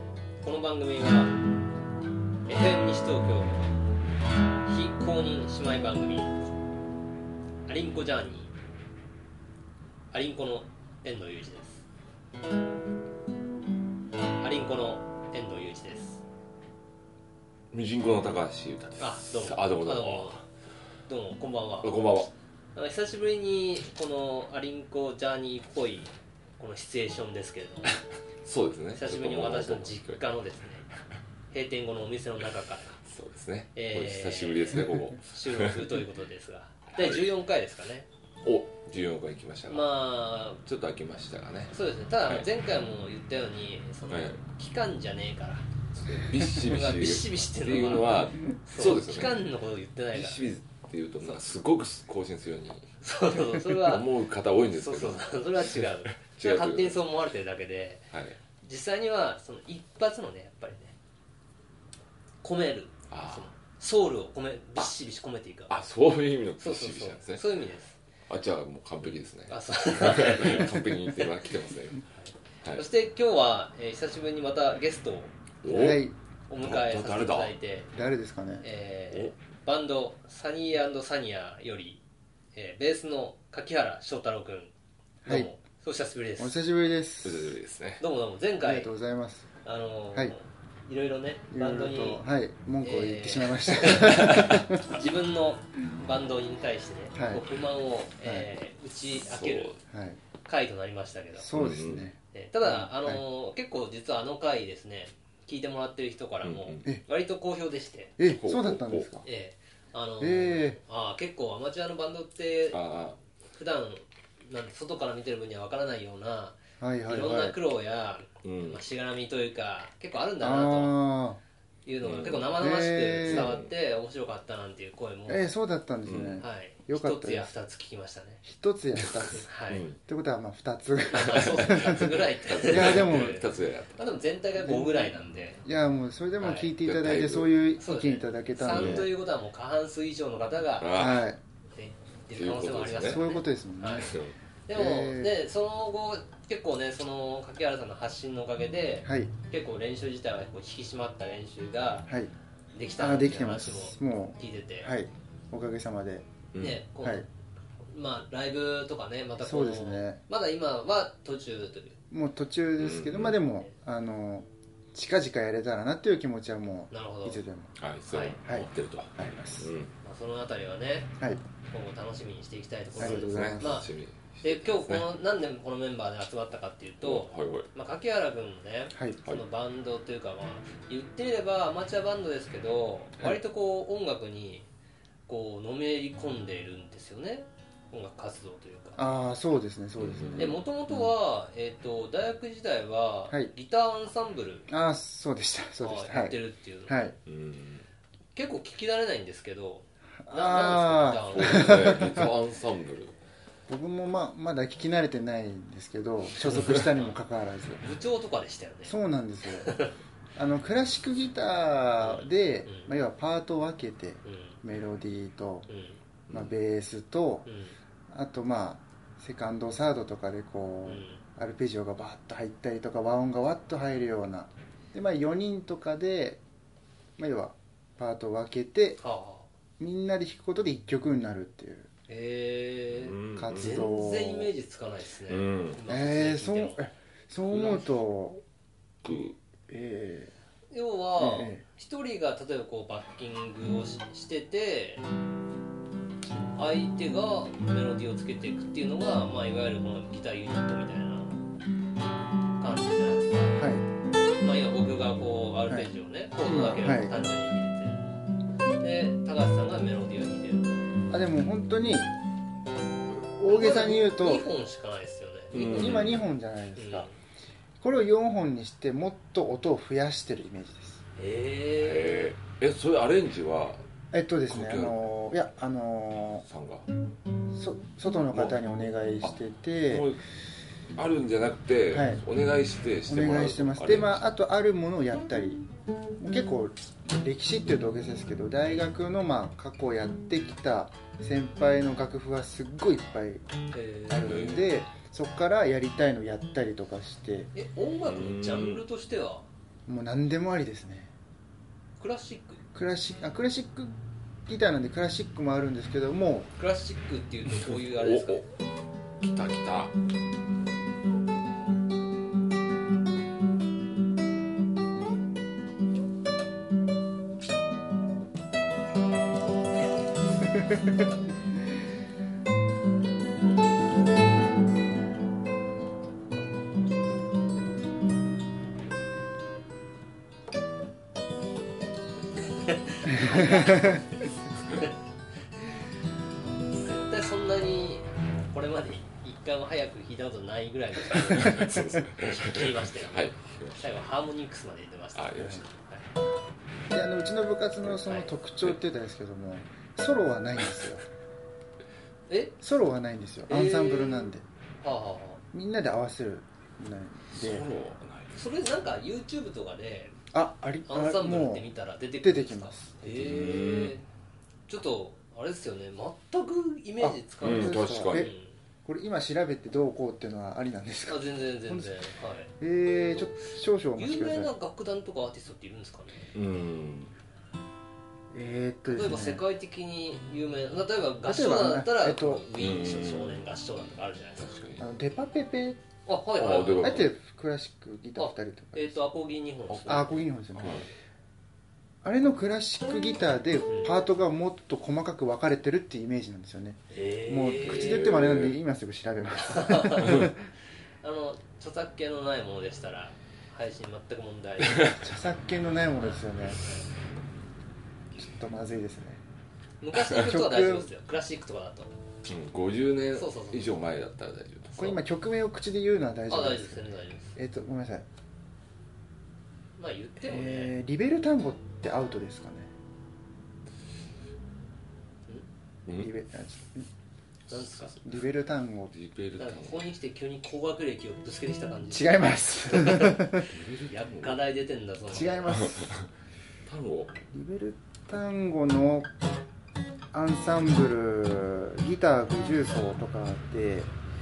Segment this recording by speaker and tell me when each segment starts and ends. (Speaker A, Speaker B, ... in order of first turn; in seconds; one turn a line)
Speaker A: 0.4-1.3
Speaker A: 2.5-3.7
Speaker A: 4.7-6.4
Speaker A: 7.7-8.5
Speaker A: 10.1-11.8
Speaker A: 14.4-16.2
Speaker B: 17.7-20.4
Speaker A: 19.0-20.4
Speaker A: 21.1-22.2
Speaker B: 21.8-22.3
Speaker A: 22.7-27.9
Speaker B: 27.9-30.2
Speaker A: 28.9-30.8
Speaker A: 31.5-33.0
Speaker B: 33.0-36.0
Speaker A: 33.7-38.1
Speaker B: 36.9-37.3
Speaker B: 38.4-40.0
Speaker A: 39.7-40.6
Speaker B: 40.6-41.7
Speaker A: 41.7-45.7
Speaker B: 44.1-44.4
Speaker B: 45.9-49.4
Speaker A: 46.4-50.5
Speaker B: 50.1-57.0
Speaker A: 53.0-54.1
Speaker A: 54.6-60.9
Speaker B: 58.1-58.4
Speaker A: 62.4-65.8
Speaker B: 63.1-63.5
Speaker B: 65.7-67.5
Speaker A: 66.6-68.0
Speaker B: 68.3-72.0
Speaker A: 69.5-71.3
Speaker A: 72.1-77.9
Speaker B: 75.6-76.0
Speaker C: 75.7-76.1
Speaker B: 76.6-77.5
Speaker C: 77.9-78.6
Speaker A: 78.6-82.0
Speaker A: 82.5-84.7
Speaker C: 85.2-85.5
Speaker A: 85.2-86.6
Speaker C: 86.4-87.6
Speaker B: 87.2-88.0
Speaker A: 88.0-88.9
Speaker C: 88.6-89.5
Speaker A: 89.6-92.2
Speaker C: 91.5-94.9
Speaker A: 92.8-99.8
Speaker B: 94.0-94.6
Speaker C: 97.1-97.4
Speaker C: 98.2-98.5
Speaker B: 99.1-99.8
Speaker C: 99.9-100.2
Speaker A: 100.4-101.5
Speaker C: 101.4-103.2
Speaker B: 101.5-102.1
Speaker A: 102.3-108.2
Speaker B: 106.4-106.8
Speaker C: 108.2-109.2
Speaker B: 108.2-109.1
Speaker A: 109.2-112.8
Speaker C: 110.2-110.8
Speaker B: 112.7-113.2
Speaker A: 113.5-116.6
Speaker C: 116.8-117.5
Speaker A: 117.1-121.0
Speaker B: 118.4-118.8
Speaker C: 120.4-121.4
Speaker A: 121.8-125.5
Speaker B: 122.0-122.5
Speaker C: 122.6-123.5
Speaker B: 123.2-123.7
Speaker C: 125.3-127.5
Speaker B: 126.0-126.4
Speaker A: 126.4-128.4
Speaker C: 128.4-132.1
Speaker B: 129.0-130.0
Speaker A: 129.4-129.8
Speaker A: 131.1-135.6
Speaker B: 131.2-134.1
Speaker C: 132.7-133.4
Speaker C: 134.6-139.1
Speaker A: 136.4-136.7
Speaker B: 136.7-137.6
Speaker A: 137.8-140.9
Speaker B: 138.7-139.1
Speaker B: 140.8-141.3
Speaker C: 140.9-141.4
Speaker A: 141.7-144.1
Speaker B: 142.3-143.2
Speaker C: 143.1-144.1
Speaker B: 143.9-144.3
Speaker A: 144.7-152.1
Speaker C: 144.7-145.3
Speaker C: 149.0-149.3
Speaker C: 152.1-152.3
Speaker A: 152.7-154.9
Speaker C: 153.0-156.3
Speaker B: 156.5-156.8
Speaker A: 156.6-157.3
Speaker A: 157.8-162.0
Speaker C: 159.4-160.2
Speaker C: 162.1-167.7
Speaker B: 162.8-163.4
Speaker A: 166.9-167.4
Speaker B: 167.8-169.9
Speaker A: 168.1-168.4
Speaker C: 168.4-169.7
Speaker A: 170.0-171.1
Speaker A: 171.7-173.9
Speaker C: 173.0-173.8
Speaker B: 173.0-175.2
Speaker A: 174.4-184.7
Speaker B: 177.0-177.7
Speaker C: 178.9-179.2
Speaker A: 185.3-189.0
Speaker C: 189.0-190.6
Speaker B: 190.0-190.6
Speaker A: 190.4-194.7
Speaker C: 194.7-197.1
Speaker A: 195.8-197.0
Speaker B: 197.2-197.9
Speaker A: 198.3-202.0
Speaker C: 200.2-202.3
Speaker B: 201.3-203.1
Speaker C: 203.7-207.8
Speaker A: 206.5-207.1
Speaker A: 207.8-208.9
Speaker C: 208.8-209.7
Speaker A: 209.5-209.9
Speaker C: 210.3-215.7
Speaker A: 212.0-212.9
Speaker A: 214.2-214.6
Speaker A: 215.7-216.0
Speaker B: 216.3-216.6
Speaker C: 216.3-217.5
Speaker A: 217.4-217.8
Speaker C: 218.1-226.4
Speaker A: 220.8-221.2
Speaker C: 227.2-229.0
Speaker A: 229.0-229.5
Speaker C: 229.8-231.9
Speaker A: 232.1-236.8
Speaker B: 232.9-233.9
Speaker C: 233.3-234.5
Speaker B: 235.3-235.8
Speaker C: 235.9-238.4
Speaker A: 237.5-237.9
Speaker B: 239.0-239.3
Speaker C: 239.1-240.3
Speaker A: 240.7-245.0
Speaker C: 241.2-241.6
Speaker A: 246.6-251.4
Speaker A: 252.6-253.6
Speaker C: 253.6-253.8
Speaker A: 254.4-258.0
Speaker C: 256.4-257.2
Speaker A: 258.8-260.8
Speaker C: 261.1-262.1
Speaker C: 263.1-264.5
Speaker A: 263.5-266.0
Speaker B: 265.5-266.2
Speaker C: 265.5-267.1
Speaker A: 266.8-267.1
Speaker C: 267.8-271.0
Speaker A: 271.1-272.3
Speaker B: 271.8-273.8
Speaker C: 274.1-276.4
Speaker B: 274.5-275.0
Speaker B: 276.5-276.9
Speaker C: 277.5-280.1
Speaker B: 278.3-278.6
Speaker B: 279.9-280.2
Speaker B: 280.9-284.2
Speaker C: 281.9-282.2
Speaker C: 283.1-285.6
Speaker C: 286.2-293.4
Speaker A: 293.7-294.4
Speaker C: 294.1-297.5
Speaker B: 294.2-294.7
Speaker A: 297.5-299.5
Speaker B: 298.0-298.8
Speaker C: 299.9-301.1
Speaker A: 302.0-302.6
Speaker C: 302.7-306.5
Speaker A: 306.6-308.4
Speaker B: 307.5-308.4
Speaker B: 309.2-309.9
Speaker A: 332.5-334.9
Speaker C: 333.1-334.0
Speaker A: 336.7-346.1
Speaker B: 341.2-343.8
Speaker B: 345.1-345.6
Speaker C: 346.9-351.0
Speaker A: 348.0-348.3
Speaker A: 352.3-352.6
Speaker C: 352.6-354.4
Speaker A: 353.5-355.4
Speaker C: 355.5-357.7
Speaker B: 357.3-358.4
Speaker A: 358.3-360.1
Speaker C: 360.3-361.7
Speaker A: 360.9-364.1
Speaker C: 362.2-362.9
Speaker B: 363.1-364.0
Speaker A: 364.7-368.5
Speaker C: 367.0-368.3
Speaker B: 367.4-368.3
Speaker C: 368.8-371.9
Speaker A: 371.1-372.5
Speaker C: 372.6-374.5
Speaker A: 374.0-376.3
Speaker B: 376.3-377.1
Speaker C: 378.3-379.4
Speaker A: 378.9-384.5
Speaker C: 381.2-382.5
Speaker B: 382.6-383.4
Speaker B: 384.4-384.9
Speaker C: 384.8-385.8
Speaker A: 386.1-387.1
Speaker B: 386.4-387.1
Speaker C: 386.8-389.1
Speaker A: 388.1-390.2
Speaker B: 389.7-390.9
Speaker C: 389.9-390.9
Speaker C: 392.0-400.4
Speaker A: 393.7-393.9
Speaker A: 396.9-398.1
Speaker B: 397.6-398.6
Speaker A: 399.4-400.3
Speaker B: 400.0-400.3
Speaker A: 401.0-405.0
Speaker B: 404.7-404.9
Speaker C: 405.0-406.6
Speaker A: 406.0-406.8
Speaker C: 408.2-409.2
Speaker A: 409.8-411.9
Speaker C: 410.0-410.9
Speaker B: 412.3-414.9
Speaker A: 413.1-413.7
Speaker C: 414.8-416.8
Speaker A: 416.3-417.3
Speaker C: 417.3-418.1
Speaker A: 419.8-420.7
Speaker C: 420.2-422.7
Speaker C: 425.9-426.9
Speaker A: 427.5-428.0
Speaker B: 427.5-427.9
Speaker C: 428.0-428.9
Speaker B: 428.9-429.9
Speaker A: 429.4-435.6
Speaker C: 431.9-433.5
Speaker B: 433.5-434.4
Speaker C: 435.1-436.0
Speaker B: 435.5-436.1
Speaker B: 436.6-437.1
Speaker C: 437.3-439.1
Speaker C: 440.1-443.9